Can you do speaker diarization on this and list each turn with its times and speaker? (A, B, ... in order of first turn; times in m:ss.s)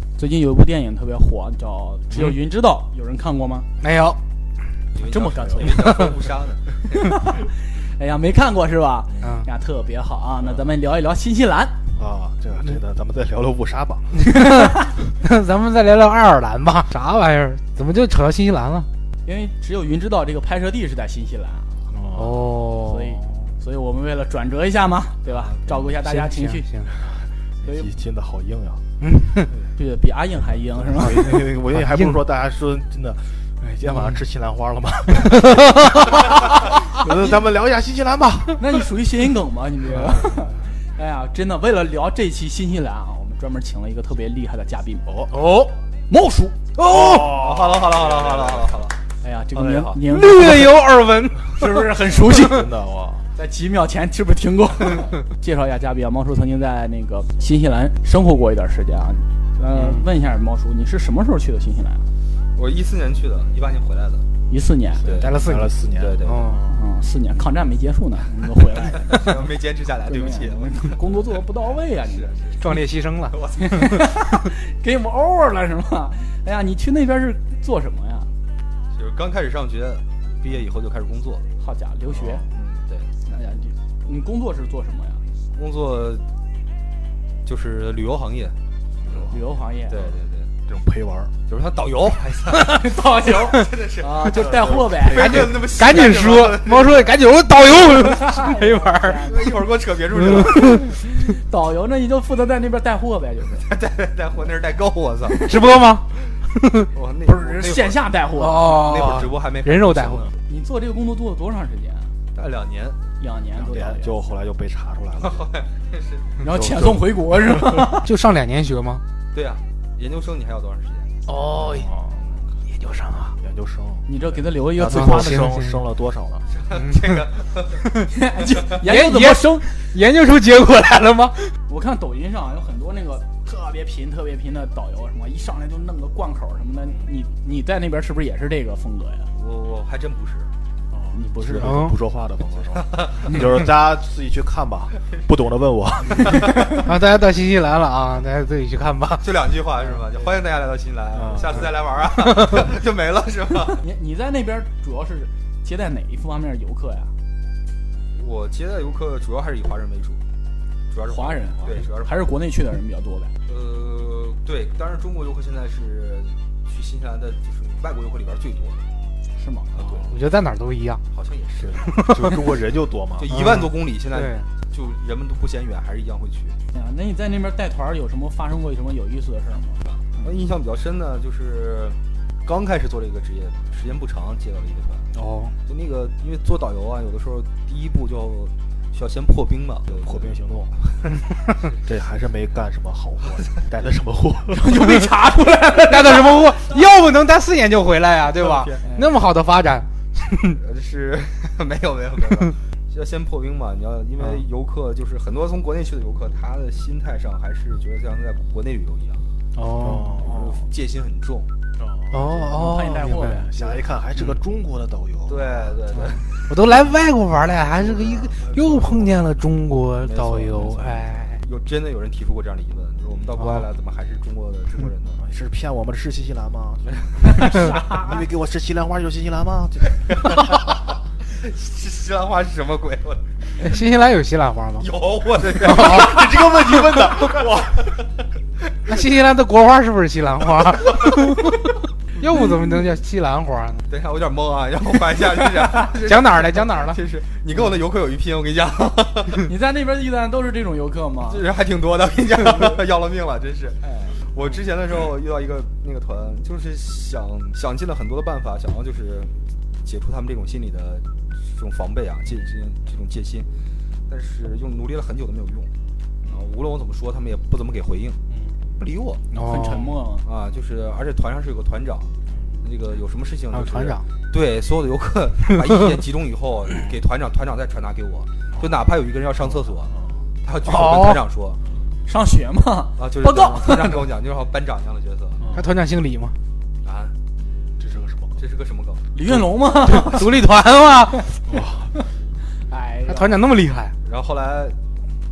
0:00.2-0:03.7 A
0:03.8-0:04.2 B
0:05.0-0:06.1 A
0:05.0-0:06.6 C
0:05.3-0:05.7 D
0:05.8-0:06.2 B
0:06.9-0:11.8 A
0:09.2-0:09.5 B
0:12.0-0:14.4 D
0:14.3-0:18.9 B
0:19.2-0:21.9 A
0:21.9-0:22.7 D
0:22.2-0:23.5 B
0:22.8-0:26.7 A
0:25.7-0:26.9 B
0:26.9-0:28.8 D
0:27.6-0:27.9 A
0:29.0-0:29.5 B
0:29.8-0:31.4 A
0:30.8-0:38.8 D
0:31.7-0:32.2 B
0:33.8-0:34.2 B
0:35.3-0:36.1 B
0:38.6-0:45.1 A
0:39.9-0:40.6 D
0:45.0-0:45.4 D
0:45.3-0:45.7 B
0:46.1-0:46.6 A
0:46.8-0:48.8 D
0:46.9-0:49.0 C
0:49.2-0:50.8 A
0:49.5-0:50.0 C
0:50.1-0:52.4 B
0:51.6-0:52.6 A
0:52.1-0:53.2 D
0:53.3-1:02.1 A
0:59.7-1:00.1 B
1:02.6-1:04.2 C
1:04.5-1:05.1 A
1:05.0-1:05.4 C
1:05.0-1:06.8 D
1:05.1-1:06.6 B
1:06.0-1:06.5 C
1:06.7-1:09.5 A
1:09.0-1:11.0 C
1:10.0-1:12.6 A
1:12.1-1:12.6 C
1:12.6-1:14.4 B
1:13.3-1:13.8 C
1:13.6-1:18.3 A
1:18.9-1:21.5 C
1:21.6-1:22.4 A
1:22.2-1:23.1 C
1:23.2-1:25.2 A
1:25.6-1:26.2 C
1:27.4-1:28.6 C
1:29.3-1:30.1 A
1:29.9-1:30.5 C
1:30.7-1:31.4 D
1:31.5-1:37.1 C
1:32.5-1:35.5 A
1:34.3-1:35.5 D
1:35.0-1:39.5 B
1:37.9-1:39.5 A
1:39.3-1:40.8 C
1:40.1-1:40.8 B
1:40.4-1:43.7 A
1:43.6-1:45.5 C
1:45.3-1:45.5 A
1:45.3-1:46.9 B
1:46.9-1:48.0 C
1:47.2-1:49.0 A
1:48.4-1:50.3 B
1:48.6-1:50.3 C
1:50.4-1:52.1 A
1:52.3-1:53.0 C
1:53.2-1:54.4 A
1:53.5-1:55.5 D
1:55.2-1:56.3 C
1:56.4-1:58.1 A
1:56.5-1:58.0 D
1:58.0-1:59.0 B
1:59.3-2:01.1 C
2:01.2-2:01.9 B
2:01.5-2:02.2 D
2:02.6-2:03.4 B
2:03.4-2:04.1 D
2:04.1-2:05.5 A
2:04.6-2:06.5 D
2:04.9-2:05.8 B
2:06.5-2:07.8 C
2:06.7-2:07.2 B
2:08.1-2:09.7 A
2:08.8-2:11.5 B
2:11.7-2:19.3 A
2:19.4-2:20.5 C
2:20.9-2:26.8 D
2:21.1-2:21.8 A
2:21.6-2:22.0 B
2:22.8-2:23.4 C
2:26.2-2:26.8 A
2:26.7-2:29.4 B
2:29.2-2:33.8 C
2:31.1-2:31.7 D
2:32.3-2:32.6 B
2:33.7-2:37.1 A
2:38.2-2:40.2 C
2:40.9-2:42.1 C
2:41.1-2:43.3 A
2:43.5-2:48.9 C
2:49.4-2:49.7 A
2:49.7-2:50.2 C
2:49.8-2:50.1 D
2:50.1-2:51.0 B
2:51.1-2:51.8 C
2:51.6-2:53.4 D
2:51.9-2:52.4 B
2:53.2-2:56.6 C
2:53.3-2:54.5 B
2:56.7-3:00.4 A
2:59.9-3:05.1 C
3:05.2-3:05.6 B
3:05.7-3:11.1 C
3:09.9-3:10.7 D
3:11.8-3:14.8 D
3:14.5-3:16.8 A
3:15.8-3:20.6 B
3:18.3-3:18.8 C
3:18.8-3:19.2 A
3:20.6-3:29.3 C
3:29.6-3:30.6 B
3:29.8-3:30.5 D
3:30.2-3:31.5 C
3:31.8-3:36.1 D
3:32.1-3:33.5 B
3:32.3-3:33.8 A
3:35.3-3:36.5 C
3:36.5-3:41.4 B
3:37.7-3:39.2 D
3:40.0-3:45.2 C
3:43.4-3:43.7 B
3:45.2-3:50.7 D
3:47.0-3:47.4 C
3:47.3-3:48.1 A
3:50.1-3:50.8 C
3:51.3-3:53.3 C
3:53.6-3:55.0 B
3:54.8-3:58.0 C
3:55.6-3:56.2 B
3:55.6-3:57.9 D
3:58.9-4:03.9 B
4:03.9-4:09.5 C
4:05.9-4:07.1 B
4:09.4-4:11.5 A
4:11.3-4:19.3 C
4:13.8-4:14.1 A
4:19.8-4:23.5 C
4:24.1-4:25.7 C
4:26.3-4:28.2 C
4:28.3-4:28.6 D
4:28.8-4:29.2 C
4:29.3-4:29.9 B
4:29.4-4:30.2 A
4:30.2-4:32.1 C
4:32.3-4:32.6 D
4:32.6-4:39.9 C
4:33.5-4:34.0 B
4:35.5-4:35.9 B
4:38.6-4:38.8 D
4:39.4-4:40.3 D
4:40.4-4:41.6 C
4:40.6-4:41.2 B
4:41.6-4:41.9 D
4:42.0-4:44.0 A
4:43.0-4:45.4 C
4:45.4-4:45.8 D
4:45.5-4:46.4 B
4:46.8-4:47.1 C
4:47.8-4:48.4 D
4:48.4-4:49.0 C
4:49.1-4:50.4 A
4:49.8-4:51.4 B
4:51.5-4:51.9 D
4:52.6-4:53.5 A
4:53.1-4:54.0 B
4:54.1-4:54.8 C